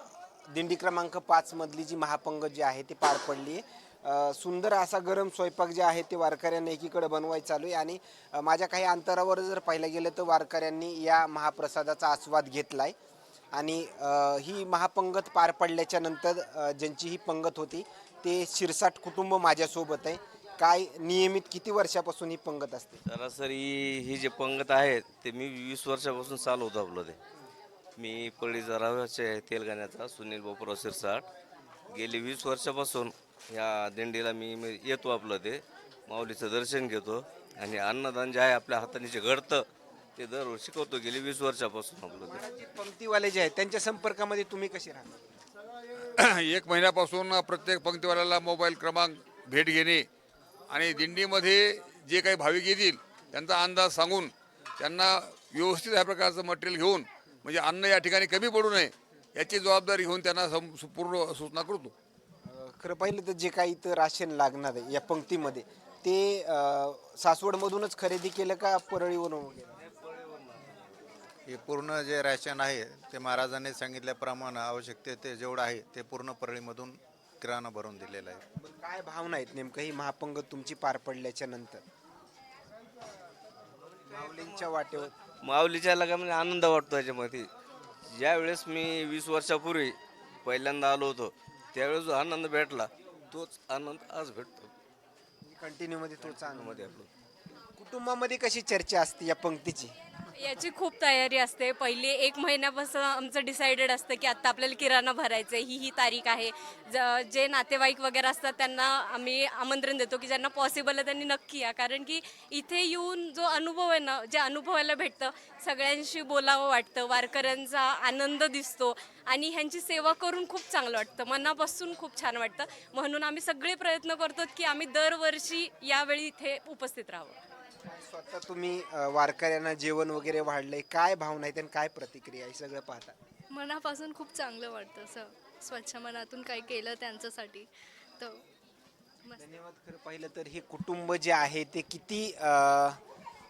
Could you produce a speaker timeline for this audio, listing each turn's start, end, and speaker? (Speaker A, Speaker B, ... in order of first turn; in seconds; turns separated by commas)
Speaker A: 0.5-12.9, Speaker A: 13.5-23.0, Speaker B: 23.1-27.2, Speaker B: 28.0-31.2, Speaker B: 31.9-42.4, Speaker A: 42.2-45.4, Speaker C: 46.2-50.1, Speaker C: 50.7-61.9, Speaker A: 62.4-69.8, Speaker B: 69.8-71.0, Speaker D: 71.5-78.4, Speaker A: 78.6-81.8, Speaker A: 84.0-85.1, Speaker B: 85.4-87.5, Speaker B: 88.1-94.7, Speaker A: 95.4-96.9, Speaker B: 96.2-97.1, Speaker A: 97.8-99.9, Speaker E: 100.4-127.3, Speaker A: 127.8-133.2, Speaker F: 133.5-138.4, Speaker A: 139.3-143.0